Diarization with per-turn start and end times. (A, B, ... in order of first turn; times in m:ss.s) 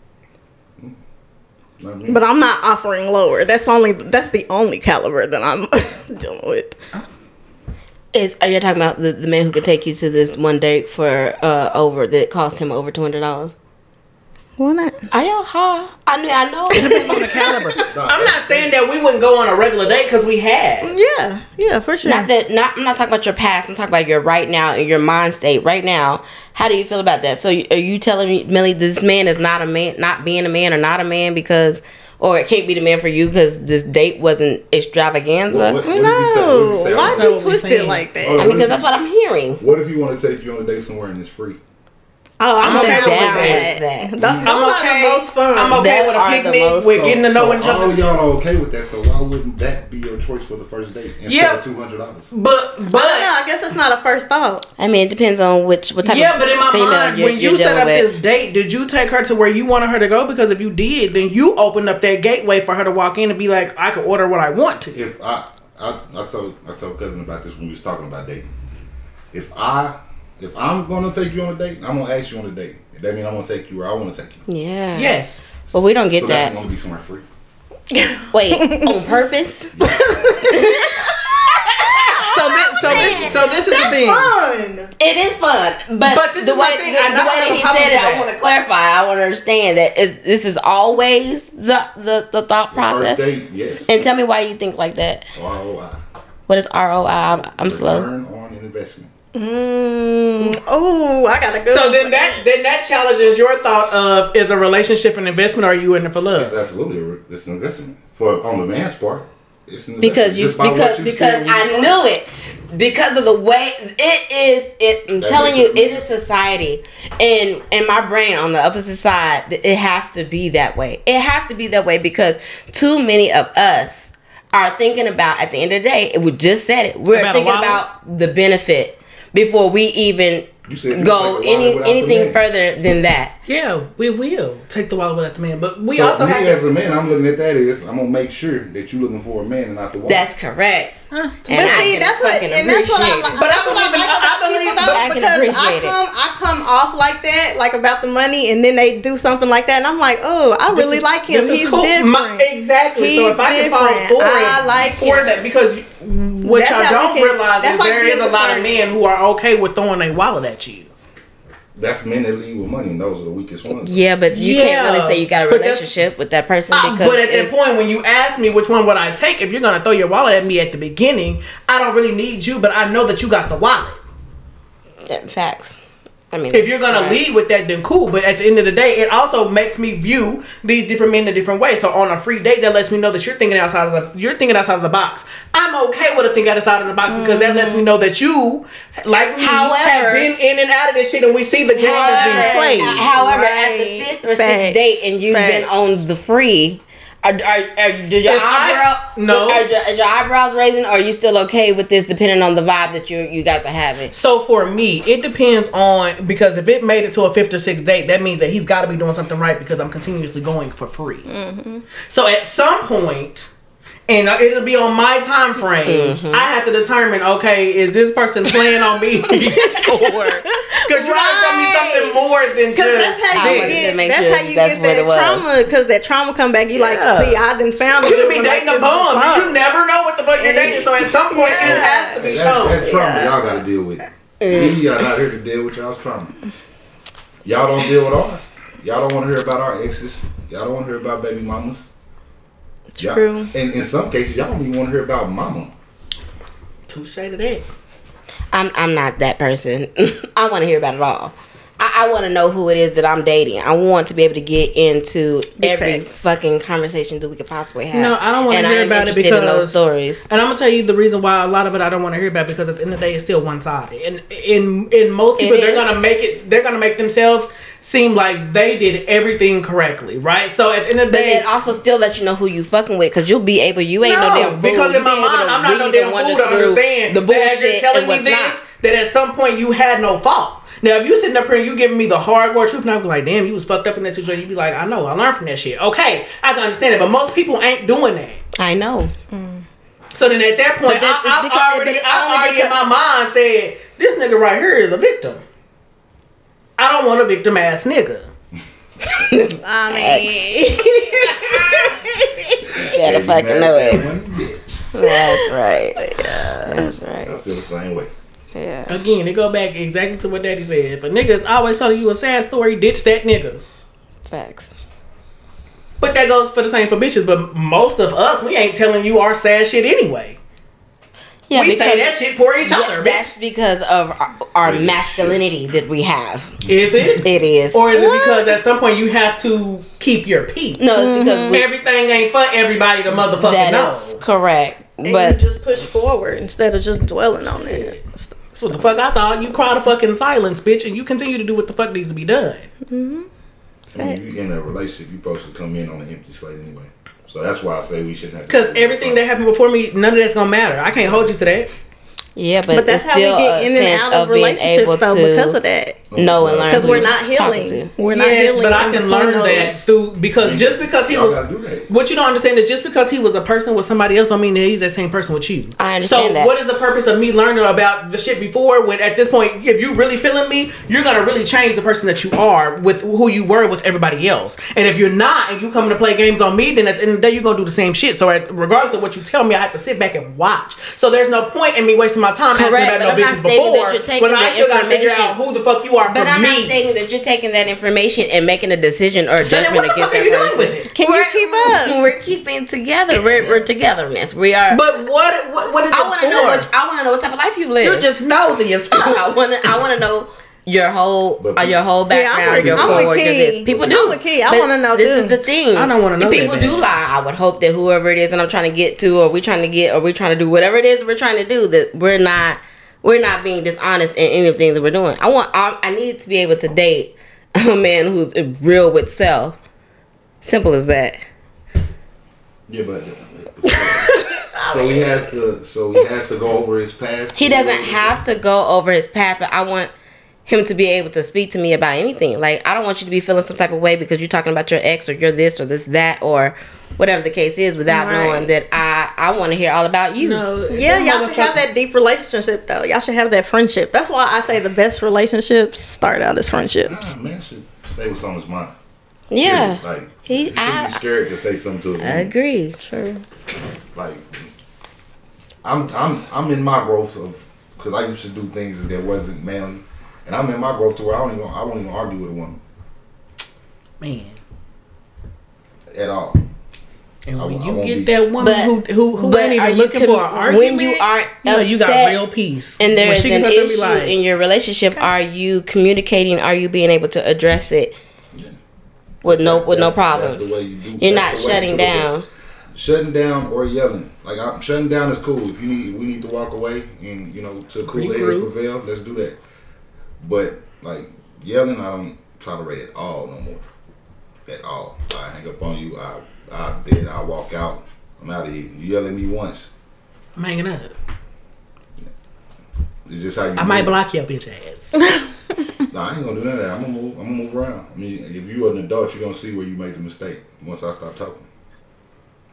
0:01.8-0:02.2 A
0:02.1-0:06.8 B
0:08.1-0:13.5 C
0:14.6-0:15.0 B
0:15.1-0:17.2 C
0:16.8-0:17.7 B
0:16.8-0:20.9 D
0:17.9-0:18.7 A
0:20.8-0:22.3 B
0:22.0-0:35.8 C
0:35.5-0:37.3 A
0:35.8-0:38.6 B
0:36.9-0:38.1 D
0:38.2-0:38.8 A
0:38.4-0:39.6 C
0:39.6-0:41.6 A
0:42.4-0:45.8 B
0:42.6-0:43.7 D
0:42.6-0:44.1 C
0:44.2-0:44.5 A
0:44.4-0:48.0 D
0:45.7-0:47.1 C
0:46.9-0:52.3 A
0:51.3-0:51.6 D
0:52.3-0:53.3 D
0:52.9-0:54.6 B
0:54.8-0:58.1 C
0:56.0-1:05.0 D
1:04.9-1:08.5 A
1:09.3-1:14.4 A
1:14.5-1:15.2 C
1:14.9-1:15.4 D
1:15.7-1:17.2 A
1:15.7-1:16.5 C
1:17.9-1:19.0 B
1:18.3-1:19.7 C
1:19.8-1:20.4 A
1:19.8-1:21.0 B
1:20.4-1:21.2 C
1:22.1-1:23.1 B
1:22.2-1:24.3 D
1:22.8-1:23.5 A
1:22.9-1:23.2 C
1:23.7-1:24.9 B
1:25.0-1:33.2 C
1:26.1-1:28.3 D
1:32.7-1:33.9 A
1:33.9-1:35.3 C
1:35.4-1:36.0 A
1:36.5-1:38.1 C
1:37.6-1:39.1 A
1:39.4-1:42.5 B
1:41.7-1:46.5 D
1:46.4-1:52.0 A
1:50.0-2:13.3 C
1:55.2-1:56.0 A
2:07.1-2:07.8 D
2:10.6-2:12.4 A
2:13.5-2:16.6 D
2:15.9-2:20.3 A
2:20.1-2:20.9 C
2:21.1-2:22.0 D
2:21.5-2:23.5 C
2:21.5-2:35.4 B
2:23.4-2:25.1 D
2:24.8-2:26.0 C
2:30.7-2:40.9 D
2:36.4-2:38.8 B
2:41.8-2:44.0 A
2:43.8-2:47.5 C
2:44.3-2:46.0 D
2:46.7-2:54.0 D
2:55.1-2:55.8 C
2:56.3-2:57.2 C
2:56.5-3:13.0 D
3:07.1-3:07.9 B
3:09.4-3:10.3 C
3:11.8-3:24.1 C
3:11.8-3:15.7 B
3:18.2-3:19.7 D
3:24.1-3:31.3 D
3:31.3-3:31.9 B
3:32.1-3:33.5 D
3:34.1-3:43.9 D
3:35.8-3:36.5 C
3:39.3-3:39.9 B
3:39.9-3:40.4 C
3:40.5-3:42.2 B
3:42.8-3:49.6 B
3:43.3-3:45.5 C
3:46.7-3:52.9 D
3:50.4-3:53.4 B
3:51.6-3:56.3 A
3:54.4-3:54.8 C
3:57.4-4:01.9 A
4:03.0-4:03.5 B
4:03.0-4:05.7 A
4:06.9-4:07.6 D
4:08.5-4:20.3 C
4:15.6-4:16.2 B
4:17.9-4:31.4 D
4:25.4-4:26.0 C
4:31.1-4:38.6 C
4:34.0-4:48.4 D
4:48.6-4:49.1 C
4:49.3-4:49.6 B
4:50.1-4:55.4 D
4:50.9-4:52.8 C
4:56.8-4:58.3 D
4:59.0-5:00.8 C
4:59.6-5:02.9 B
5:02.7-5:04.8 A
5:02.9-5:04.0 C
5:04.9-5:07.4 C
5:05.0-5:05.4 B
5:06.0-5:06.9 B
5:07.3-5:08.1 A
5:08.6-5:09.0 C
5:08.9-5:13.6 D
5:14.3-5:14.7 C
5:16.0-5:20.4 D
5:21.5-5:26.6 C
5:21.5-5:23.3 D
5:24.6-5:25.4 A
5:26.6-5:26.9 A
5:26.7-5:30.9 D
5:27.2-5:28.0 C
5:27.9-5:28.5 B
5:30.8-5:31.7 C
5:31.0-5:31.6 B
5:31.5-5:34.2 D
5:33.4-5:35.4 C
5:35.0-5:39.0 B
5:37.4-5:38.0 D
5:38.6-5:42.7 D
5:42.9-5:43.3 B
5:43.9-5:49.2 A
5:48.5-5:51.7 D
5:52.4-5:55.6 C
5:52.7-5:56.1 B
5:56.1-5:57.2 A
5:56.2-5:57.9 C
5:56.7-5:59.8 B
5:58.0-6:26.8 D
6:00.4-6:01.9 A
6:05.8-6:06.5 C
6:22.5-6:25.4 C
6:26.1-6:34.8 C
6:29.4-6:30.9 D
6:30.9-6:32.0 B
6:34.7-6:36.7 D
6:35.9-6:38.1 C
6:37.8-6:39.2 D
6:38.9-6:59.6 C
6:41.4-6:41.8 A
6:42.1-6:45.4 B
6:42.5-6:44.2 A
6:45.8-6:46.9 D
7:00.4-7:01.2 C
7:02.7-7:04.1 A
7:03.8-7:04.2 C
7:04.5-7:05.3 B
7:04.7-7:08.2 A
7:07.4-7:09.9 C
7:10.5-7:20.4 C
7:17.9-7:18.5 B
7:20.2-7:21.6 D
7:20.7-7:27.0 B
7:26.8-7:28.8 A
7:29.3-7:31.0 C
7:29.4-7:32.3 A
7:32.0-7:32.8 C
7:32.8-7:33.2 B
7:33.9-7:34.5 A
7:35.6-7:42.6 A
7:44.0-7:44.4 D
7:45.9-7:46.4 A
7:47.3-7:54.2 D
7:47.4-7:48.2 A
7:48.4-7:52.2 C
7:52.8-7:58.0 C
7:59.2-8:02.3 C
7:59.2-8:02.2 A
8:02.7-8:09.4 A
8:07.9-8:08.5 D
8:10.2-8:13.6 A
8:14.5-8:19.7 A
8:20.4-8:21.0 D
8:23.1-8:24.0 A
8:23.6-8:25.0 D
8:25.0-8:25.3 B
8:25.9-8:31.4 A